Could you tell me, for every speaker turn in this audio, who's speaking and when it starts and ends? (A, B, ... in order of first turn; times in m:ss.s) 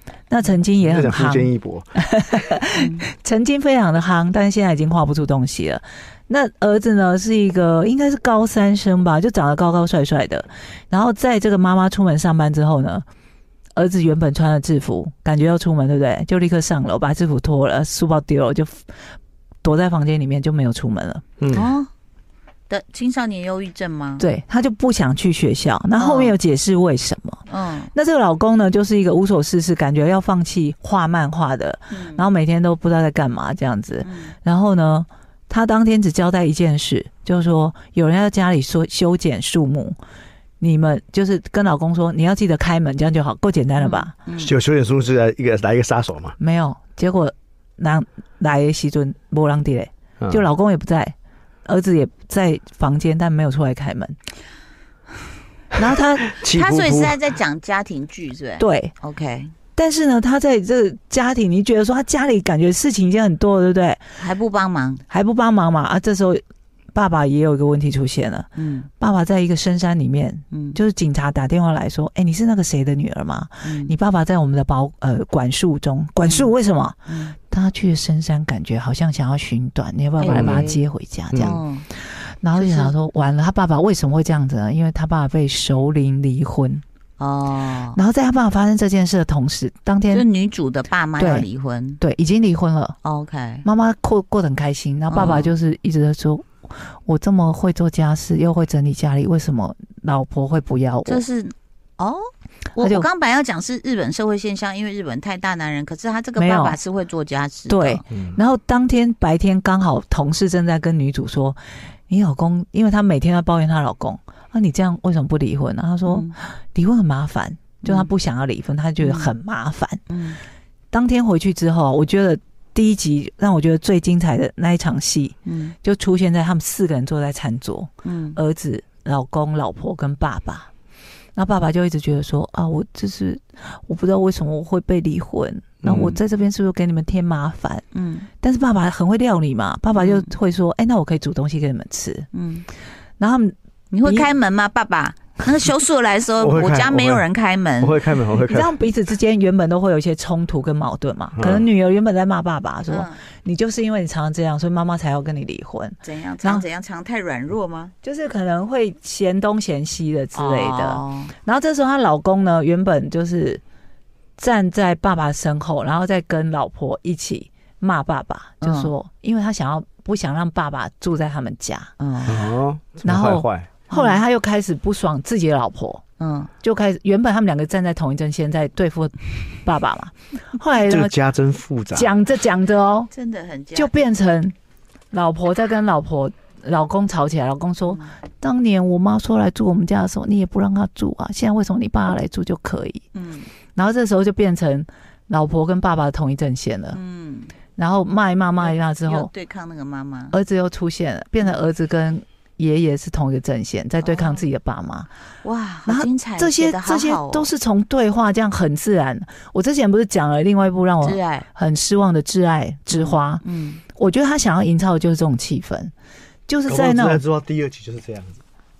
0:00.3-0:13.0 A
0:00.8-0:01.9 B
0:02.8-0:03.1 C
0:13.8-0:18.8 A
0:19.6-0:21.2 A
0:21.4-0:21.7 B
0:21.5-0:21.9 C
0:22.7-0:24.3 C
0:24.2-0:40.0 A
0:26.0-0:26.4 C
0:27.5-0:27.9 C
0:31.9-0:32.2 C
0:34.0-0:34.4 C
0:40.6-0:44.2 A
0:43.8-0:44.5 C
0:44.4-0:46.4 B
0:46.4-0:51.2 A
0:50.2-0:50.5 B
0:51.7-0:54.2 A
0:55.7-0:56.3 A
0:56.4-0:57.2 B
0:56.5-0:59.5 C
0:58.6-0:58.9 A
0:59.8-1:04.0 A
1:04.2-1:05.0 C
1:05.1-1:06.4 A
1:06.9-1:08.5 A
1:08.6-1:08.9 C
1:09.0-1:21.6 A
1:10.5-1:10.8 C
1:13.6-1:14.0 C
1:16.2-1:16.5 C
1:17.1-1:17.4 C
1:20.2-1:20.8 C
1:20.3-1:20.7 B
1:21.3-1:21.6 B
1:21.4-1:21.9 C
1:22.4-1:26.8 A
1:22.5-1:22.9 C
1:27.2-1:28.0 C
1:27.9-1:30.3 A
1:30.1-1:32.0 C
1:31.2-1:31.5 A
1:32.0-1:33.0 A
1:33.0-1:33.7 C
1:33.6-1:41.2 A
1:35.1-1:35.5 C
1:41.1-1:42.2 C
1:42.8-1:48.0 C
1:42.8-1:43.1 A
1:46.4-1:46.8 A
1:47.7-2:00.0 A
1:56.1-1:56.4 C
1:57.8-1:58.1 C
1:59.0-1:59.3 C
2:00.1-2:00.4 C
2:00.9-2:10.7 A
2:05.4-2:05.8 C
2:08.0-2:08.4 C
2:11.4-2:17.8 A
2:15.8-2:16.2 C
2:17.9-2:18.3 C
2:18.4-2:22.3 A
2:20.0-2:20.3 C
2:22.3-2:22.7 C
2:23.2-2:24.3 A
2:23.9-2:28.0 C
2:26.4-2:27.3 B
2:27.8-2:28.7 B
2:28.5-2:36.7 A
2:31.4-2:31.6 B
2:32.9-2:33.2 C
2:36.0-2:37.9 C
2:38.0-2:43.6 A
2:40.3-2:41.3 C
2:44.4-2:52.0 A
2:48.6-2:48.9 C
2:52.0-2:52.5 C
2:52.3-2:53.7 B
2:53.0-2:56.0 A
2:53.9-2:54.2 C
2:56.2-2:56.5 C
2:56.6-3:01.2 A
3:00.8-3:02.1 B
3:01.9-3:03.1 A
3:03.1-3:04.1 C
3:03.7-3:04.6 A
3:05.1-3:13.0 A
3:07.9-3:08.2 C
3:13.1-3:13.5 C
3:13.8-3:17.0 A
3:16.9-3:17.6 C
3:17.8-3:19.3 A
3:18.6-3:20.4 C
3:20.3-3:25.1 A
3:24.0-3:24.4 C
3:25.4-3:27.5 C
3:25.9-3:33.4 A
3:31.0-3:31.5 C
3:32.9-3:33.8 C
3:34.0-3:35.9 A
3:36.5-3:37.2 A
3:36.7-3:38.4 B